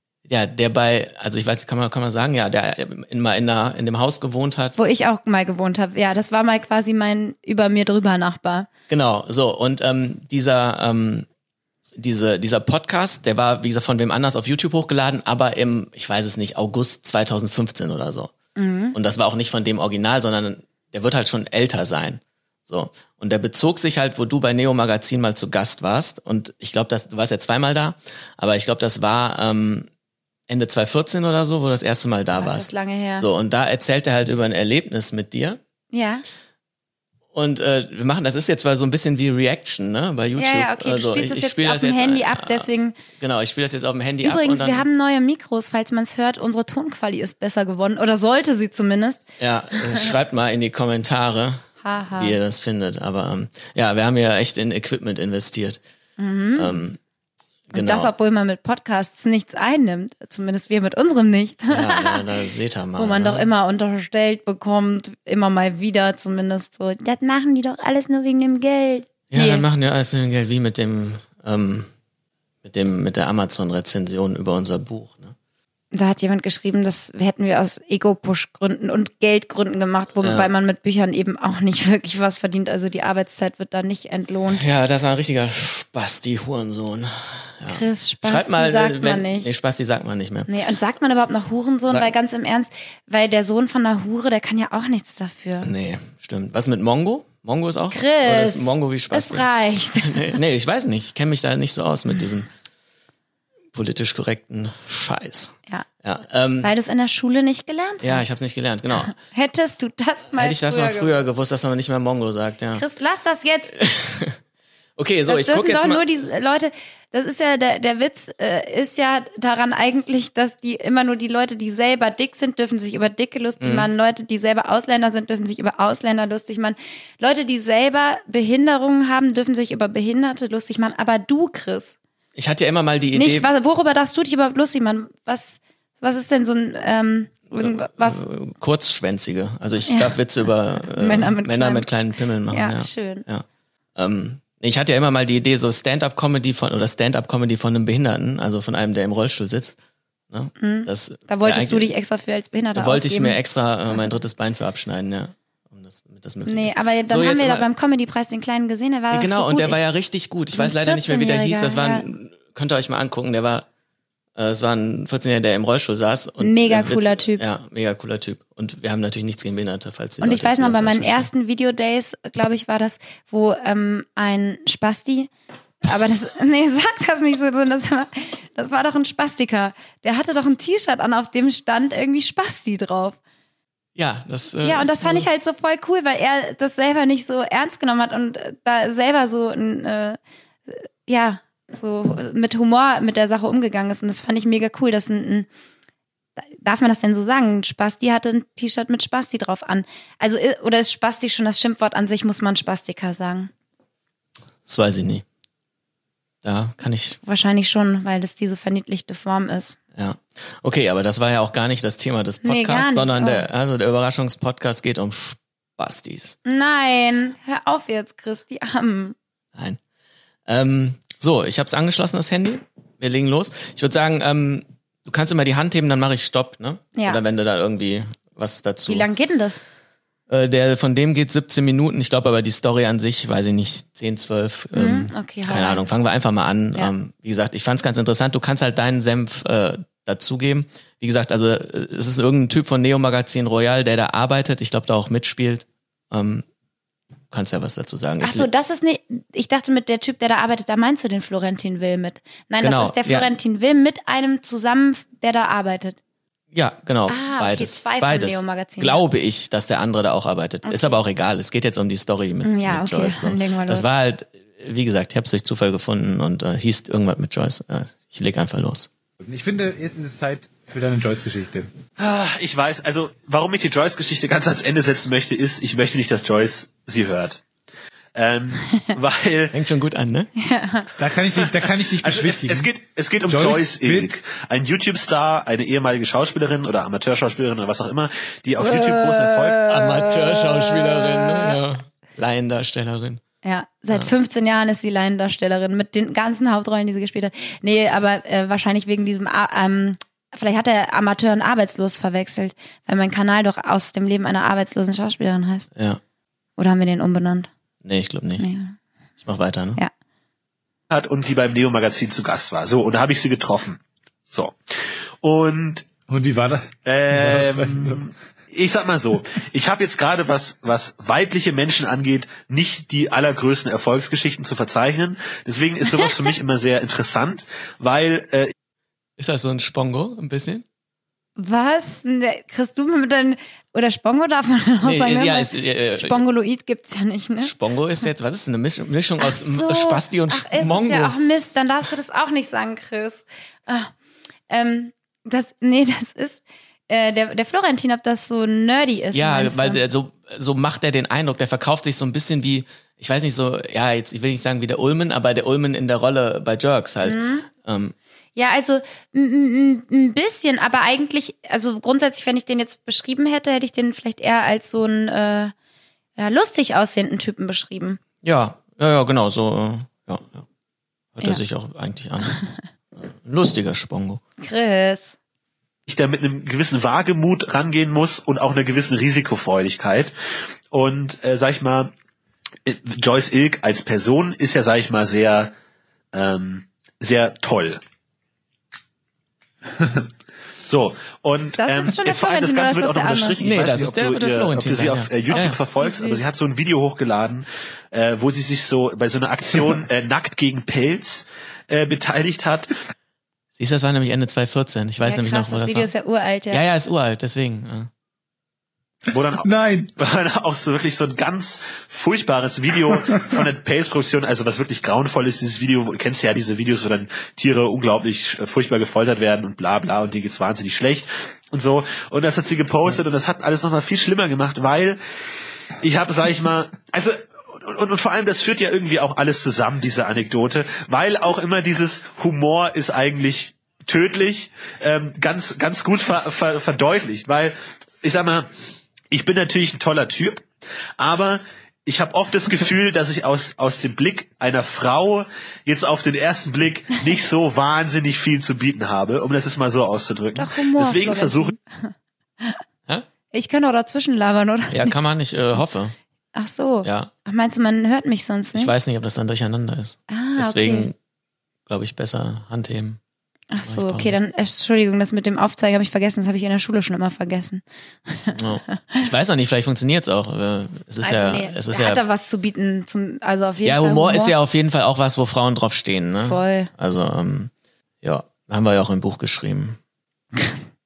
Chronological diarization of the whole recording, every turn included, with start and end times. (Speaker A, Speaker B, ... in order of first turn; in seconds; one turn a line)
Speaker A: 0.3-4.8
Speaker B: 4.8-8.7
Speaker A: 8.9-11.3
Speaker A: 12.0-18.3
Speaker B: 18.6-19.0
Speaker A: 18.9-29.9
Speaker A: 30.5-35.6
Speaker B: 32.4-33.3
Speaker B: 35.9-36.2
Speaker A: 37.3-44.8
Speaker B: 40.4-43.0
Speaker B: 44.2-50.1
Speaker A: 49.4-55.8
Speaker B: 51.8-52.4
Speaker B: 56.2-56.8
Speaker A: 56.5-57.0
Speaker A: 57.7-58.1
Speaker B: 57.7-62.2
Speaker A: 61.7-63.5
Speaker B: 63.0-69.6
Speaker A: 69.3-71.9
Speaker A: 72.6-75.3
Speaker B: 75.9-84.6
Speaker A: 80.2-80.5
Speaker A: 84.5-90.5
Speaker B: 87.7-89.5
Speaker B: 90.5-95.7
Speaker A: 95.6-99.5
Speaker B: 97.9-100.3
Speaker A: 100.0-102.5
Speaker A: 103.7-106.7
Speaker B: 106.6-108.3
Speaker A: 108.0-109.2
Speaker B: 109.0-111.1
Speaker A: 110.3-112.8
Speaker B: 112.7-113.8
Speaker A: 113.7-114.4
Speaker A: 115.0-116.0
Speaker B: 115.3-131.9
Speaker A: 123.6-123.9
Speaker A: 132.3-133.5
Speaker B: 133.1-138.2
Speaker A: 137.6-149.8
Speaker B: 139.9-140.1
Speaker B: 141.0-141.8
Speaker B: 142.5-143.2
Speaker A: 150.3-151.9
Speaker B: 150.6-153.4
Speaker A: 152.8-157.7
Speaker B: 156.4-159.8
Speaker A: 159.1-163.7
Speaker B: 160.5-162.0
Speaker A: 164.3-171.3
Speaker B: 166.4-167.4
Speaker B: 170.2-175.3
Speaker B: 175.8-183.2
Speaker A: 183.9-185.3
Speaker B: 184.6-195.5
Speaker B: 196.4-203.5
Speaker A: 204.7-205.2
Speaker A: 206.4-207.2
Speaker B: 207.2-209.8
Speaker A: 209.9-216.4
Speaker B: 212.4-213.4
Speaker B: 216.4-219.1
Speaker A: 219.5-219.8
Speaker A: 220.5-229.1
Speaker B: 226.9-227.2
Speaker B: 228.9-229.6
Speaker A: 230.3-246.4
Speaker B: 234.7-235.8
Speaker A: 247.3-248.5
Speaker B: 248.2-256.0
Speaker A: 252.6-253.3
Speaker A: 256.5-268.9
Speaker B: 257.1-259.0
Speaker B: 260.6-260.9
Speaker B: 262.4-263.9
Speaker C: 269.2-271.7
Speaker D: 272.0-277.4
Speaker D: 278.1-279.6
Speaker A: 279.5-280.3
Speaker B: 280.4-280.9
Speaker C: 281.0-282.7
Speaker D: 281.7-289.6
Speaker C: 283.3-284.1
Speaker B: 288.6-291.6
Speaker A: 289.7-293.2
Speaker B: 293.4-305.7
Speaker A: 305.7-306.0
Speaker B: 306.6-307.5
Speaker A: 307.8-308.4
Speaker B: 308.4-308.7
Speaker A: 309.2-309.8
Speaker D: 310.9-313.8
Speaker D: 315.2-315.9
Speaker C: 316.1-318.0
Speaker D: 316.8-328.5
Speaker A: 329.2-330.6
Speaker B: 331.4-337.5
Speaker A: 334.8-336.2
Speaker A: 337.4-341.1
Speaker B: 339.2-343.9
Speaker B: 344.5-349.8
Speaker A: 349.1-357.9
Speaker B: 357.0-357.5
Speaker B: 358.3-365.5
Speaker B: 366.2-368.0
Speaker A: 368.2-370.4
Speaker A: 371.1-372.4
Speaker A: 372.9-374.2
Speaker B: 374.4-375.2
Speaker D: 375.9-380.1
Speaker D: 380.7-381.9
Speaker D: 382.6-385.5
Speaker D: 386.1-387.8
Speaker D: 390.6-402.7
Speaker B: 391.6-393.4
Speaker A: 393.4-395.6
Speaker B: 395.3-396.3
Speaker A: 403.6-405.9
Speaker B: 405.0-406.6
Speaker A: 406.5-407.9
Speaker D: 409.1-425.0
Speaker C: 409.4-409.9
Speaker D: 425.8-438.5
Speaker D: 439.1-440.4
Speaker D: 441.0-451.5
Speaker B: 450.3-452.6
Speaker B: 453.3-455.1
Speaker A: 454.7-455.9
Speaker B: 456.3-458.7
Speaker A: 456.8-457.1
Speaker A: 458.5-460.9
Speaker B: 460.1-460.9
Speaker A: 461.7-463.0
Speaker B: 463.5-469.0
Speaker A: 463.6-464.1
Speaker A: 468.3-472.0
Speaker B: 471.0-474.3
Speaker A: 473.6-477.5
Speaker B: 476.2-476.7
Speaker A: 478.0-479.8